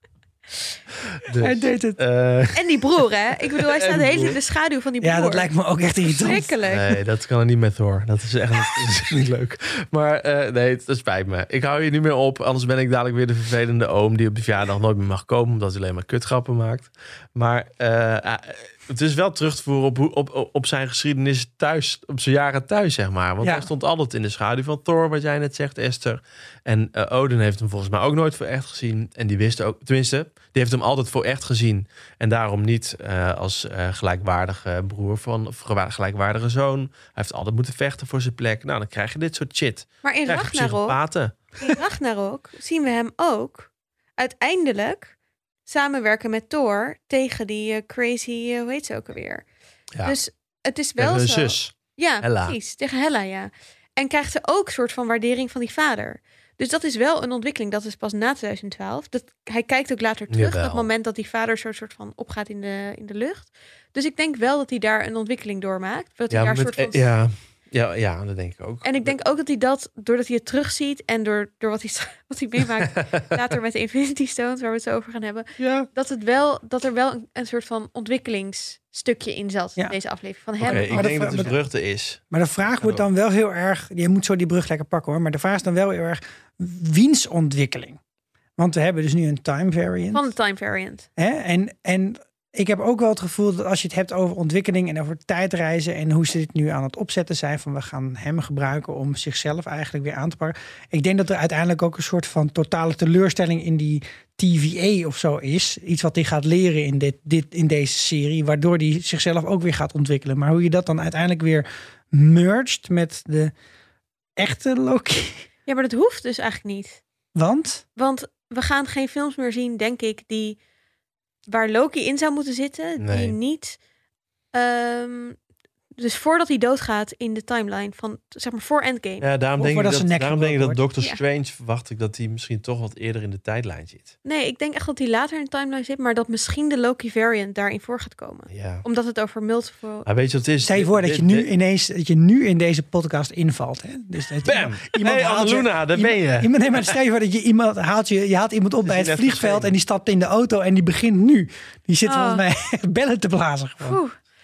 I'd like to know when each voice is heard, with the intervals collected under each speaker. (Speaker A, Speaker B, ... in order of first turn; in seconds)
Speaker A: 1.2-2.8, 3.5-4.4, 6.7-41.4, 51.0-52.6, 60.3-60.9, 66.3-69.2, 75.6-75.9, 80.6-83.1, 123.0-123.4, 129.2-134.1, 138.5-138.8, 140.1-141.5, 144.4-146.9, 148.8-149.7
Speaker B: 1.4-2.0, 5.0-6.5, 23.4-23.7, 80.7-81.6, 82.3-88.0, 88.6-90.2, 91.2-113.5, 114.4-115.5, 117.3-117.8, 129.6-130.8, 140.6-154.0
Speaker C: 2.5-5.5, 6.1-7.0, 40.0-45.1, 45.7-49.5, 50.0-67.1, 68.8-81.5, 90.1-91.1, 115.7-117.0, 118.0-120.6, 121.5-123.8, 124.5-125.4, 126.0-129.2, 134.2-140.1, 152.1-152.4, 153.8-154.2